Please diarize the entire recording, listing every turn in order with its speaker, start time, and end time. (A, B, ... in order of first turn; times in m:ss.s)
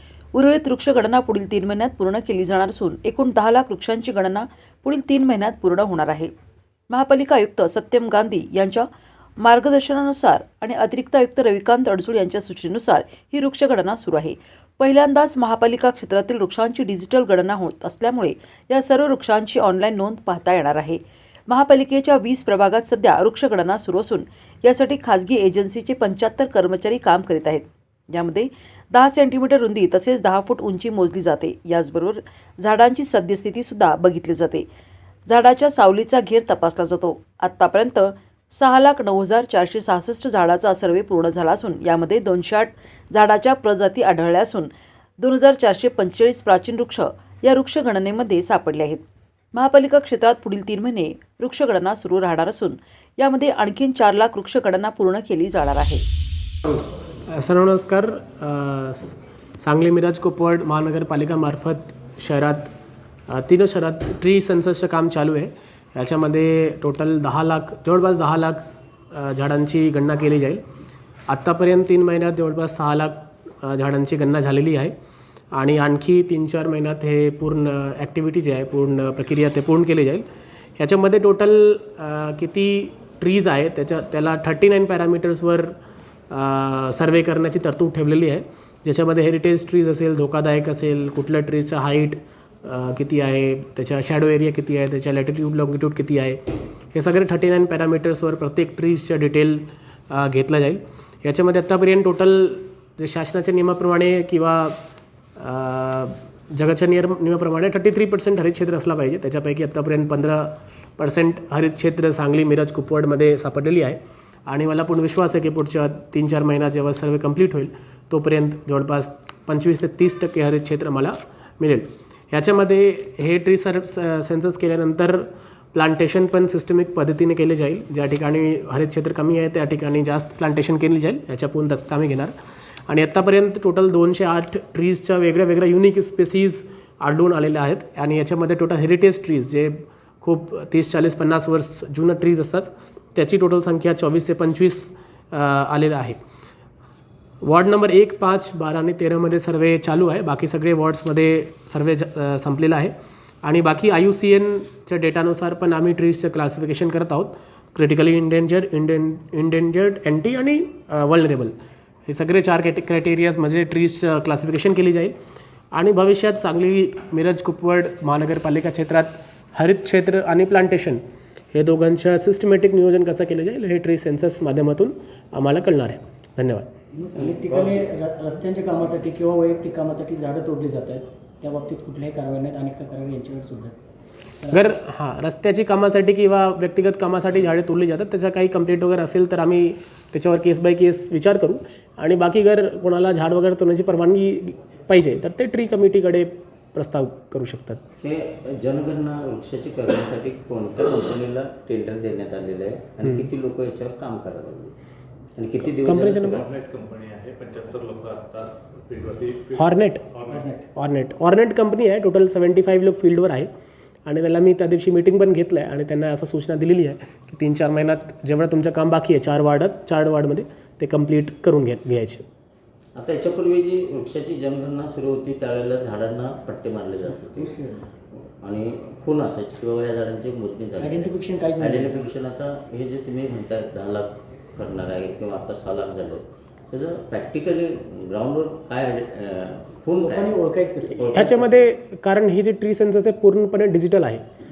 0:00.3-0:06.3 A
0:06.9-0:08.9 A
0:09.4-0:34.6 A
0:35.3-0:49.0 A
0:49.5-0:56.0 A
0:57.3-1:02.7 B
1:03.3-1:10.6 B
1:11.3-1:14.9 B
1:15.5-1:20.2 B
1:20.8-1:25.7 B
1:26.3-1:36.4 B
1:36.9-1:44.8 B
1:45.4-2:12.3 B
2:12.9-2:26.2 B
2:27.4-2:32.9 B
2:33.4-2:41.5 B
2:42.1-2:45.1 B
2:45.7-2:51.0 B
2:51.5-2:56.7 B
2:56.9-3:03.8 C
2:57.1-2:57.8 D
3:04.5-3:17.8 B
3:18.0-3:24.7 D
3:25.4-3:26.4 D
3:25.8-3:26.4 B
3:26.4-3:30.4 E
3:29.5-3:30.0 B
3:30.3-3:30.6 C
3:30.7-3:33.5 B
3:34.0-3:42.2 B
3:42.9-4:01.7 D
3:47.3-3:47.8 C
3:50.8-3:52.0 C
3:59.9-4:01.3 C
4:01.1-4:04.2 B